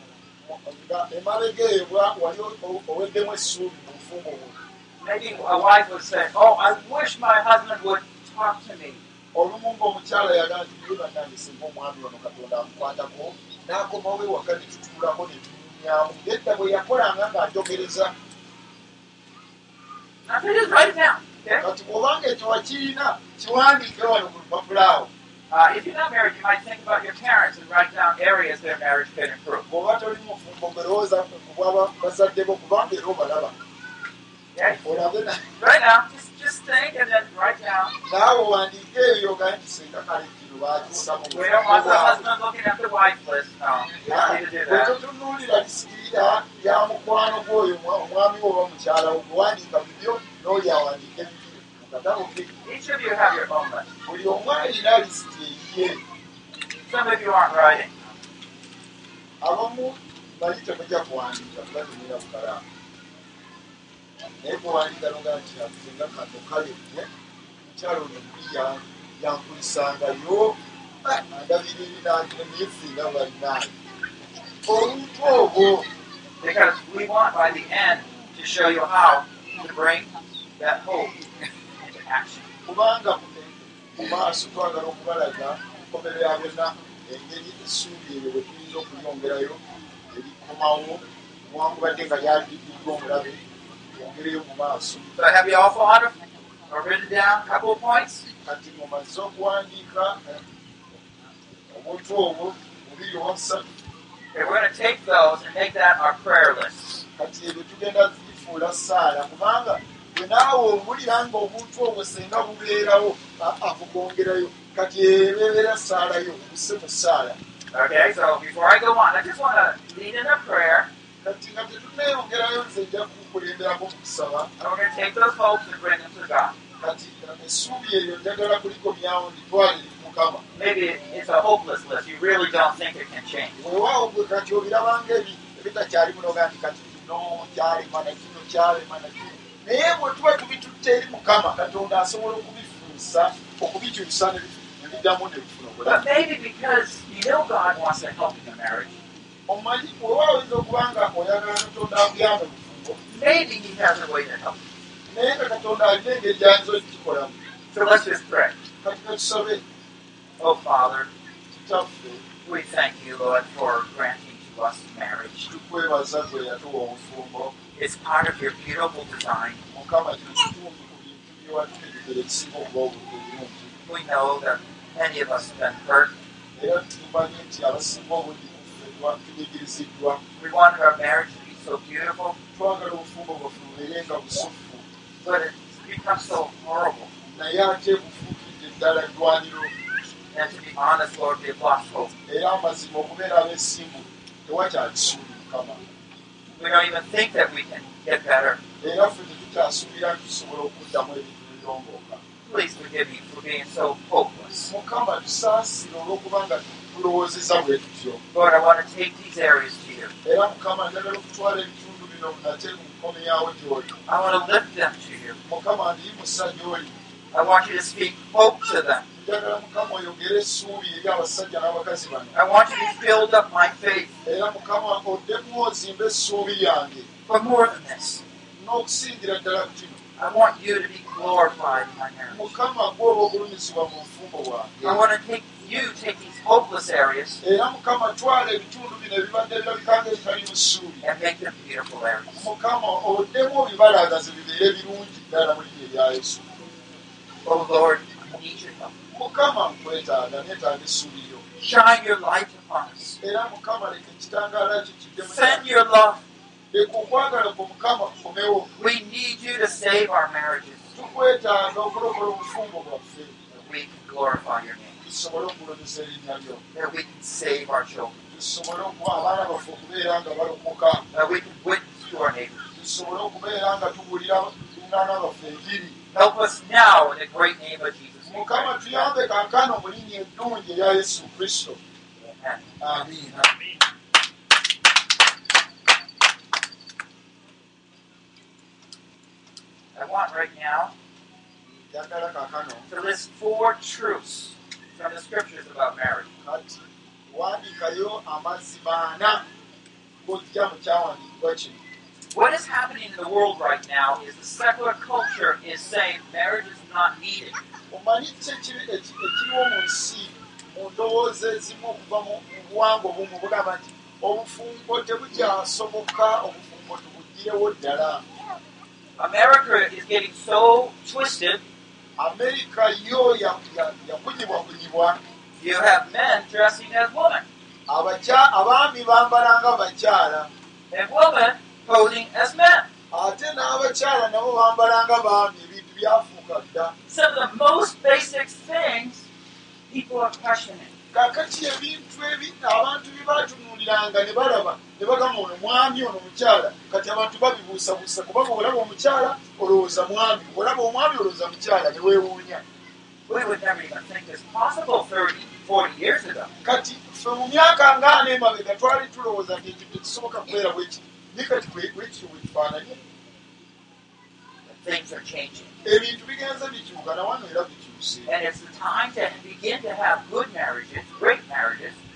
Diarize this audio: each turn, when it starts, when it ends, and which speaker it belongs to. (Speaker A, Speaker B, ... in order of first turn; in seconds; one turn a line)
Speaker A: 0.4-4.6
Speaker B: 5.0-9.0
Speaker A: 9.3-18.1
Speaker B: 20.3-21.7
Speaker A: 21.6-25.1
Speaker B: 25.5-29.6
Speaker A: 29.7-33.6
Speaker B: 34.5-35.0
Speaker A: 34.8-35.5
Speaker B: 35.6-38.0
Speaker A: 38.0-42.3
Speaker B: 41.3-45.0
Speaker A: 44.0-52.5
Speaker B: 52.6-53.9
Speaker A: 54.1-56.0
Speaker B: 56.9-57.9
Speaker A: 59.4-62.6
Speaker A: 64.4-67.1
Speaker A: 67.6-73.7
Speaker A: 74.6-75.9
Speaker B: 76.4-82.5
Speaker A: 82.7-93.4
Speaker A: 93.9-95.1
Speaker B: 95.2-96.1
Speaker B: 96.7-98.2
Speaker A: 98.4-100.4
Speaker A: 101.7-103.7
Speaker B: 104.3-107.0
Speaker A: 107.2-117.4
Speaker B: 117.7-120.9
Speaker A: 121.2-124.5
Speaker B: 124.6-126.6
Speaker A: 126.8-130.4
Speaker B: 130.6-133.6
Speaker A: 133.6-146.1
Speaker B: 145.8-149.0
Speaker A: 149.5-153.0
Speaker B: 153.1-154.6
Speaker A: 155.1-157.4
Speaker B: 157.7-158.6
Speaker A: 158.8-159.6
Speaker B: 160.4-161.1
Speaker A: 161.5-162.2
Speaker B: 162.4-165.5
Speaker A: 165.5-167.6
Speaker B: 167.8-169.6
Speaker A: 169.7-173.7
Speaker B: 173.9-176.1
Speaker A: 176.6-180.2
Speaker B: 180.4-182.4
Speaker A: 182.6-184.9
Speaker B: 185.2-187.1
Speaker A: 187.3-189.7
Speaker B: 190.3-192.1
Speaker A: 192.3-195.9
Speaker B: 196.5-198.6
Speaker A: 198.8-202.2
Speaker B: 202.4-204.7
Speaker A: 204.7-208.2
Speaker B: 208.3-210.1
Speaker A: 210.2-213.9
Speaker B: 214.1-215.4
Speaker A: 215.5-217.0
Speaker B: 217.3-219.1
Speaker A: 219.1-222.4
Speaker B: 222.3-224.1
Speaker A: 224.2-227.1
Speaker B: 227.3-228.2
Speaker A: 228.6-230.0
Speaker B: 230.2-232.5
Speaker A: 232.3-235.1
Speaker B: 234.8-237.4
Speaker A: 237.4-241.0
Speaker B: 241.0-242.5
Speaker A: 242.4-246.5
Speaker B: 247.4-248.9
Speaker A: 249.1-251.4
Speaker B: 251.6-253.2
Speaker A: 253.2-255.7
Speaker B: 255.2-256.2
Speaker A: 256.7-258.7
Speaker B: 258.8-260.9
Speaker A: 260.9-263.5
Speaker B: 263.6-265.0
Speaker A: 265.0-266.6
Speaker B: 266.7-268.2
Speaker A: 268.3-271.1
Speaker B: 271.1-272.6
Speaker A: 272.7-276.0
Speaker B: 276.1-278.7
Speaker A: 278.3-281.8
Speaker B: 282.4-282.7
Speaker A: 282.8-283.5
Speaker B: 289.9-290.9
Speaker A: 291.7-292.9
Speaker B: 292.9-296.3
Speaker A: 296.4-299.5
Speaker A: 300.2-301.8
Speaker B: 302.3-307.6
Speaker A: 307.9-318.2
Speaker B: 319.2-321.6
Speaker A: 322.2-325.2
Speaker B: 325.6-327.5
Speaker A: 327.9-330.5
Speaker B: 330.9-332.9
Speaker A: 333.1-336.9
Speaker B: 337.1-339.2
Speaker B: 339.9-340.9
Speaker A: 341.1-352.6
Speaker B: 353.3-356.5
Speaker A: 356.6-363.0
Speaker B: 364.7-365.7
Speaker A: 365.8-368.3
Speaker B: 368.3-372.0